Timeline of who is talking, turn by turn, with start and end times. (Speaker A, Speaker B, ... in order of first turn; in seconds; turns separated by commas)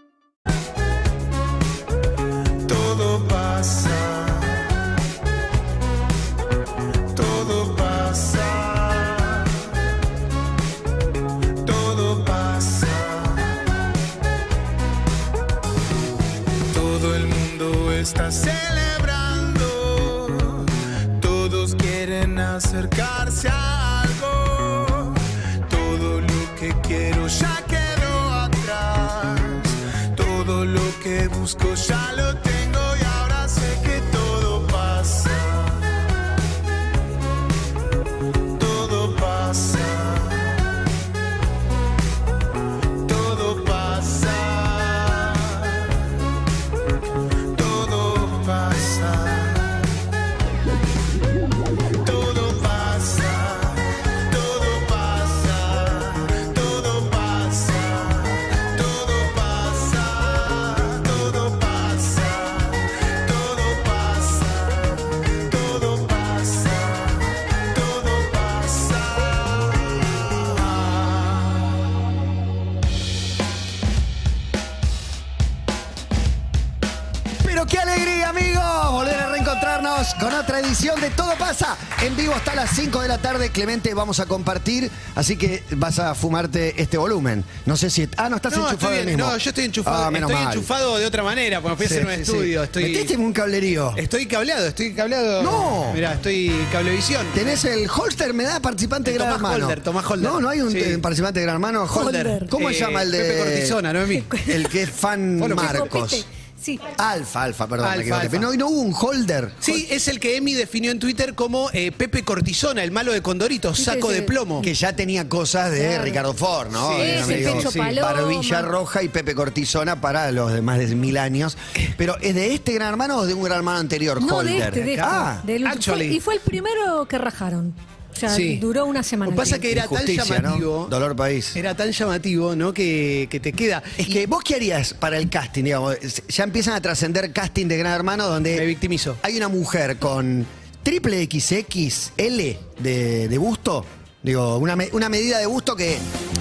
Speaker A: 2.7-4.6, Speaker A: 7.1-9.5, Speaker A: 11.6-13.6, Speaker A: 16.7-35.9, Speaker A: 38.6-40.6, Speaker A: 43.1-45.9, Speaker A: 47.5-49.9, Speaker A: 52.0-64.8, Speaker A: 65.5-67.2, Speaker A: 67.7-71.2, Speaker B: 77.4-90.7, Speaker C: 88.5-93.1, Speaker B: 91.8-94.0, Speaker C: 94.0-97.4, Speaker B: 95.4-96.0, Speaker B: 97.3-103.8, Speaker C: 99.0-101.0, Speaker D: 101.9-102.5, Speaker C: 102.0-104.3, Speaker D: 104.1-104.8, Speaker B: 104.5-106.2, Speaker C: 105.4-105.8, Speaker D: 105.5-106.9, Speaker B: 106.9-109.8, Speaker C: 107.8-108.5, Speaker C: 109.6-114.7, Speaker D: 113.8-114.3, Speaker B: 114.6-125.5, Speaker D: 115.8-116.2, Speaker C: 116.7-117.9, Speaker D: 117.0-118.7, Speaker D: 124.2-129.7, Speaker C: 125.6-126.2, Speaker C: 128.3-128.7, Speaker C: 129.2-130.9, Speaker B: 129.7-131.6, Speaker C: 131.6-134.2, Speaker B: 134.0-138.7, Speaker C: 138.5-139.2, Speaker B: 139.2-146.1